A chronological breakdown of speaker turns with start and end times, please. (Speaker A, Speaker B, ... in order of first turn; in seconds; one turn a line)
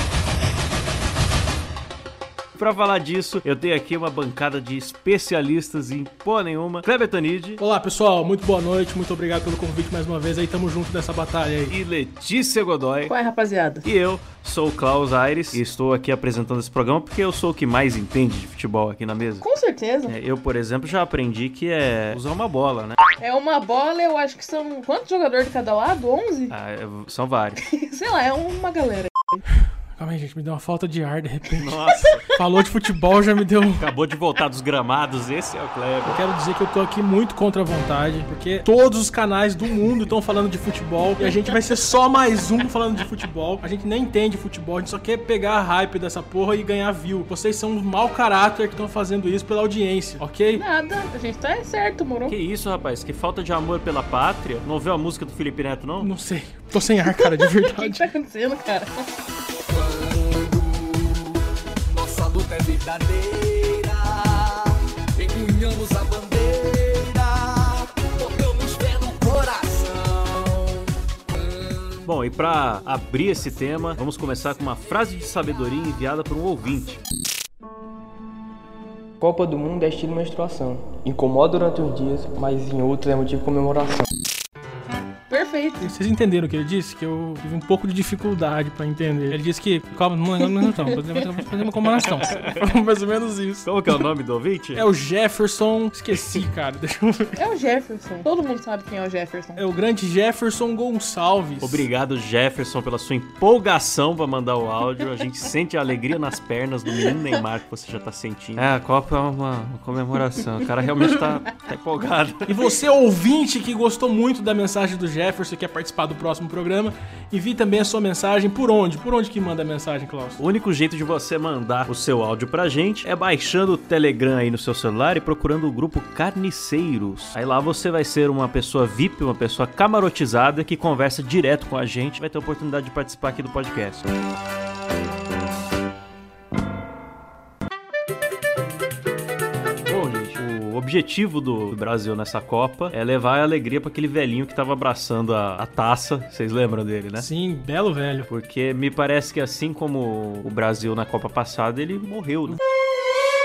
Speaker A: 2.5-7.6
Speaker B: 7.6-11.7
Speaker A: 11.7-13.1
Speaker C: 13.1-13.8
Speaker A: 13.8-19.4
Speaker C: 19.4-20.1
Speaker A: 20.1-23.0
Speaker C: 23.2-26.5
Speaker A: 26.5-27.6
Speaker C: 27.7-29.4
Speaker B: 29.9-33.8
Speaker A: 31.6-32.3
Speaker A: 33.8-36.2
Speaker B: 36.1-50.6
Speaker C: 41.2-41.5
Speaker C: 50.5-52.3
Speaker A: 52.3-56.1
Speaker B: 56.0-58.1
Speaker C: 57.0-59.1
Speaker D: 59.7-61.3
Speaker D: 61.9-70.8
Speaker D: 71.4-71.9
Speaker A: 72.0-77.0
Speaker E: 79.2-84.1
Speaker C: 85.3-85.9
Speaker B: 85.8-94.0
Speaker A: 91.9-92.6
Speaker A: 93.6-94.8
Speaker B: 94.8-97.4
Speaker A: 96.1-96.4
Speaker C: 97.4-99.6
Speaker B: 99.6-101.8
Speaker A: 101.6-112.6
Speaker B: 112.5-120.4
Speaker A: 120.4-134.1
Speaker A: 139.8-147.3
Speaker B: 147.2-148.3
Speaker A: 148.3-152.6